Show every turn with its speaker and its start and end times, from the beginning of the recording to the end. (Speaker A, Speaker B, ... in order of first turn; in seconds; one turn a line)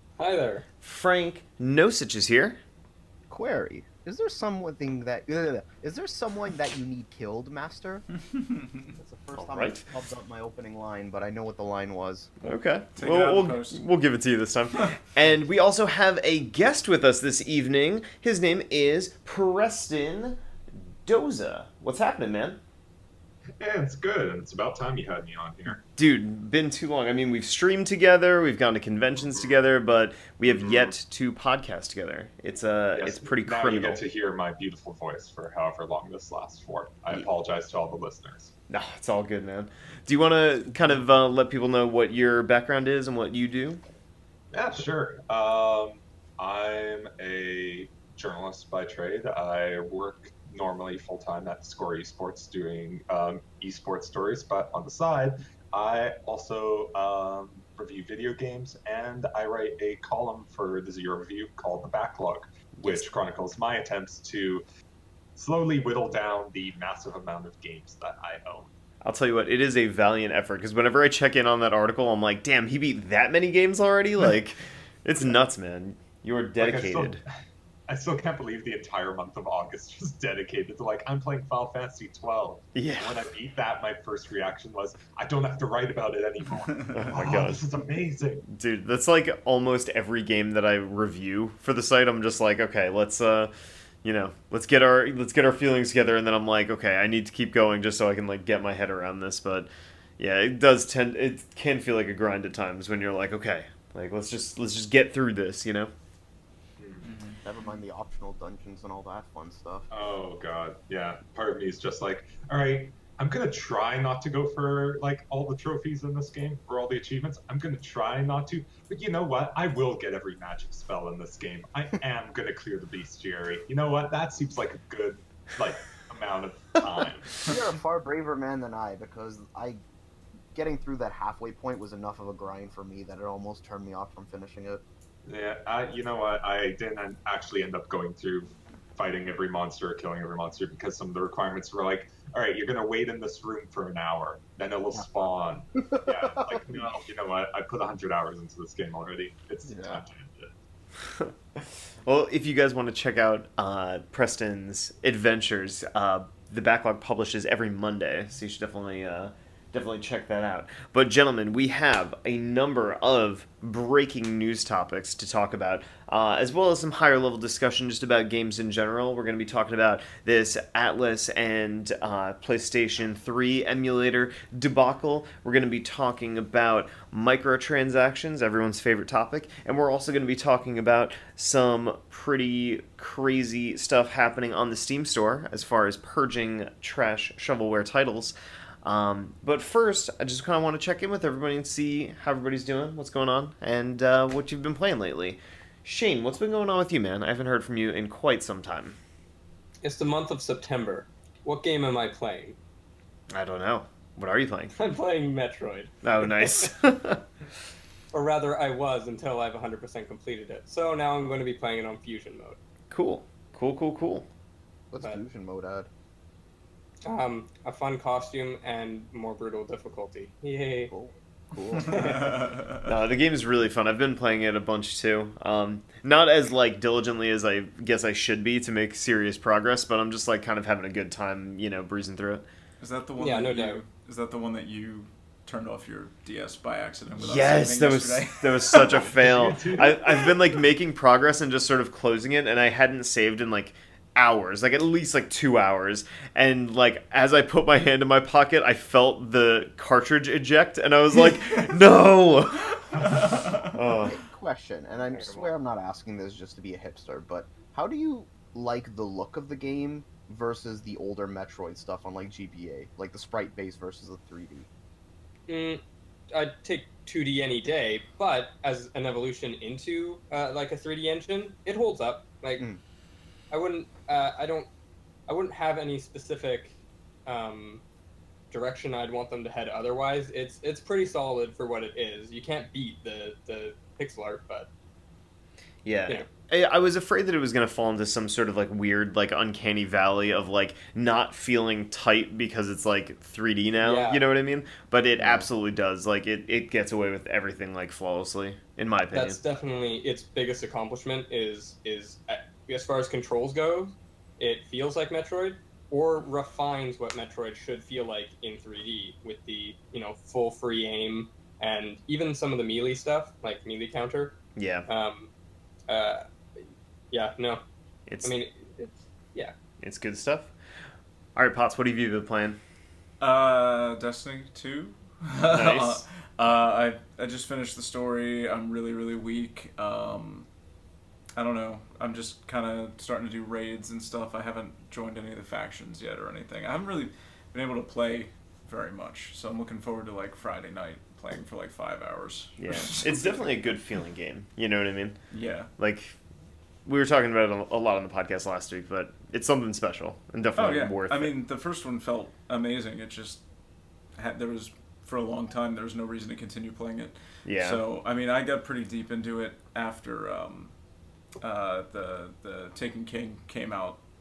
Speaker A: 0.2-0.6
Speaker B: 0.8-2.6
Speaker C: 3.3-8.0
Speaker C: 8.9-12.3
Speaker B: 9.3-9.8
Speaker B: 12.4-20.4
Speaker D: 12.9-13.8
Speaker B: 21.0-22.6
Speaker E: 23.6-25.8
Speaker B: 25.9-34.0
Speaker E: 30.4-30.9
Speaker E: 33.0-38.5
Speaker B: 38.7-43.8
Speaker E: 44.5-64.6
Speaker B: 62.8-63.1
Speaker E: 65.3-68.7
Speaker B: 69.0-77.2
Speaker E: 76.6-77.2
Speaker E: 77.9-88.5
Speaker B: 82.7-83.2
Speaker B: 86.9-87.6
Speaker B: 88.5-93.5
Speaker B: 94.0-105.9
Speaker E: 106.8-107.0
Speaker D: 107.0-107.4
Speaker C: 107.4-109.8
Speaker E: 109.9-127.6
Speaker C: 127.4-129.8
Speaker C: 130.5-134.8
Speaker E: 135.2-150.5
Speaker C: 145.8-146.8
Speaker C: 149.6-150.0
Speaker B: 151.2-199.0
Speaker A: 199.8-202.6
Speaker B: 203.3-204.7
Speaker A: 204.7-205.9
Speaker B: 206.0-207.2
Speaker A: 208.1-212.6
Speaker B: 212.9-214.3
Speaker C: 214.9-215.9
Speaker A: 217.0-220.9
Speaker C: 220.9-222.3
Speaker A: 221.8-222.4
Speaker D: 222.2-222.6
Speaker B: 222.8-232.4
Speaker D: 232.8-239.2
Speaker A: 233.2-233.8
Speaker B: 237.2-254.2
Speaker E: 239.1-240.3
Speaker D: 252.9-253.7
Speaker C: 254.1-264.7
Speaker A: 255.1-255.5
Speaker A: 265.5-272.6
Speaker A: 273.5-274.7
Speaker A: 275.3-277.8
Speaker A: 278.5-284.7
Speaker B: 285.8-299.4
Speaker A: 293.8-294.2
Speaker A: 299.1-314.4
Speaker B: 314.6-314.9
Speaker A: 314.9-315.3
Speaker A: 315.9-317.6
Speaker B: 318.1-318.4
Speaker A: 318.2-319.5
Speaker B: 319.8-320.5
Speaker B: 321.3-322.6
Speaker D: 323.2-330.5
Speaker B: 325.5-326.0
Speaker D: 331.4-343.4
Speaker B: 342.6-345.2
Speaker D: 345.3-345.7
Speaker B: 345.7-346.2
Speaker B: 346.9-351.3
Speaker D: 350.6-353.4
Speaker D: 354.1-360.7
Speaker B: 357.4-357.8
Speaker D: 361.4-364.0